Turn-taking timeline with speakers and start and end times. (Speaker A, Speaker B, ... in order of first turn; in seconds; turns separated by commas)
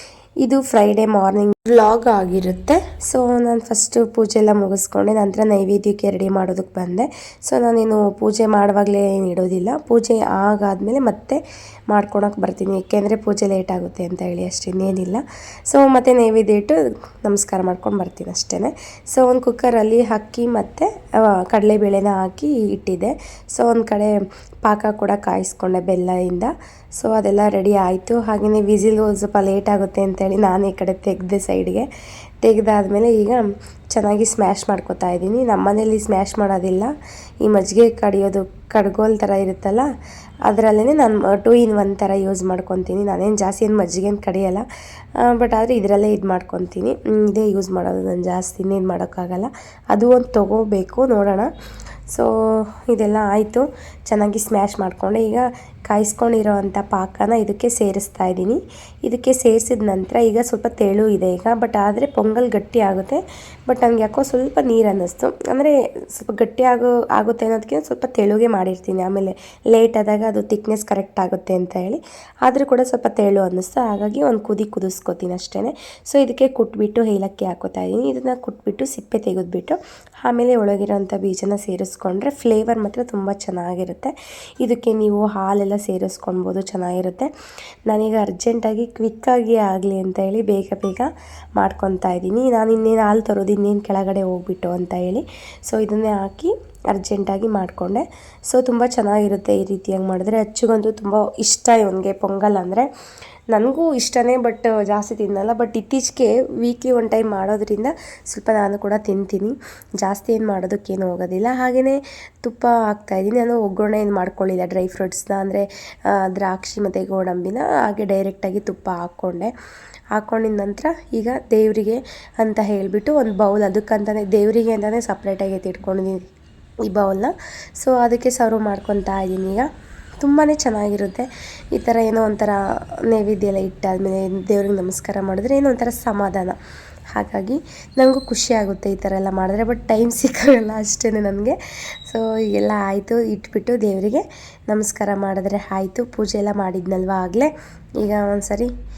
Speaker A: 0.4-31.9, Speaker A: 32.4-36.9, Speaker A: 37.4-39.9, Speaker A: 40.5-44.6, Speaker A: 45.2-51.5, Speaker A: 52.9-87.3, Speaker A: 87.9-102.9, Speaker A: 103.5-119.5, Speaker A: 120.2-126.3, Speaker A: 126.9-129.7, Speaker A: 130.2-136.6, Speaker A: 137.1-148.7